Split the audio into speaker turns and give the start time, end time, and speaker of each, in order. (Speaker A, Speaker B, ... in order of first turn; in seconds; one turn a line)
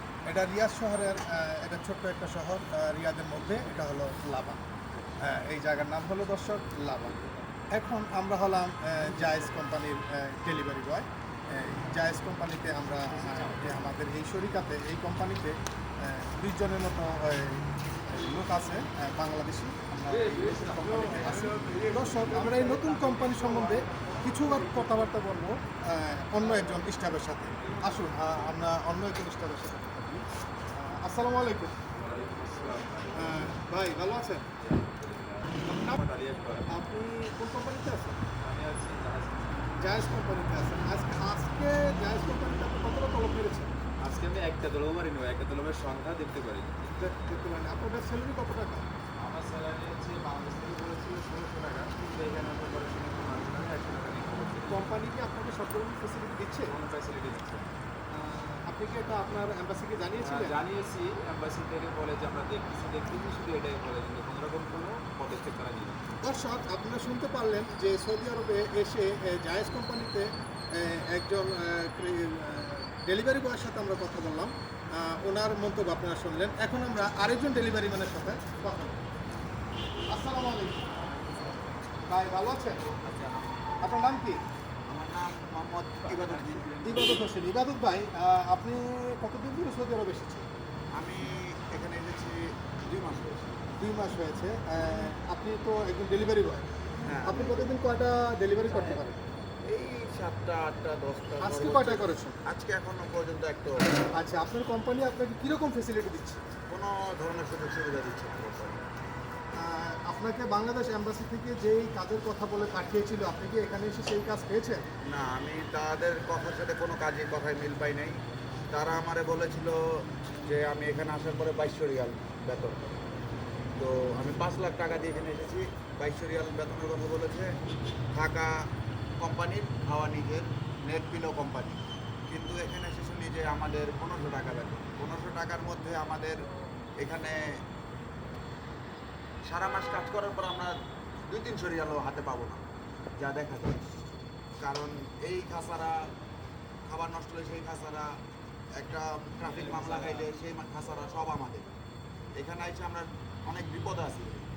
Speaker A: 0.2-4.6
Speaker A: 5.2-7.2
Speaker B: 6.8-7.5
Speaker A: 7.7-31.8
Speaker B: 13.2-13.7
Speaker B: 20.1-25.0
Speaker B: 27.6-28.6
Speaker B: 31.9-33.5
Speaker A: 33.1-34.5
Speaker B: 34.6-36.7
Speaker A: 35.7-36.0
Speaker A: 36.7-38.2
Speaker B: 38.4-39.7
Speaker A: 39.8-43.7
Speaker B: 44.0-46.9
Speaker A: 46.9-48.9
Speaker B: 49.2-54.9
Speaker A: 54.7-56.7
Speaker B: 56.7-57.7
Speaker A: 58.1-60.6
Speaker B: 60.2-66.1
Speaker A: 66.2-79.0
Speaker A: 80.1-80.9
Speaker A: 82.0-82.8
Speaker B: 83.0-83.5
Speaker A: 83.8-84.4
Speaker C: 84.9-86.7
Speaker B: 86.0-87.2
Speaker A: 86.8-90.5
Speaker C: 91.0-93.6
Speaker A: 93.8-96.7
Speaker C: 97.0-97.7
Speaker A: 97.2-99.2
Speaker C: 98.7-99.0
Speaker C: 99.6-103.8
Speaker A: 101.4-102.4
Speaker A: 104.1-106.4
Speaker C: 106.7-108.8
Speaker A: 109.5-114.8
Speaker C: 115.1-118.2
Speaker C: 118.7-123.0
Speaker C: 123.8-127.5
Speaker C: 128.1-128.7
Speaker C: 129.2-136.5
Speaker C: 137.0-137.6
Speaker C: 139.5-140.8
Speaker C: 141.3-142.6
Speaker C: 143.2-143.8
Speaker C: 144.6-146.1
Speaker C: 146.9-148.1
Speaker C: 148.8-151.8
Speaker B: 149.5-150.2
Speaker C: 152.4-154.4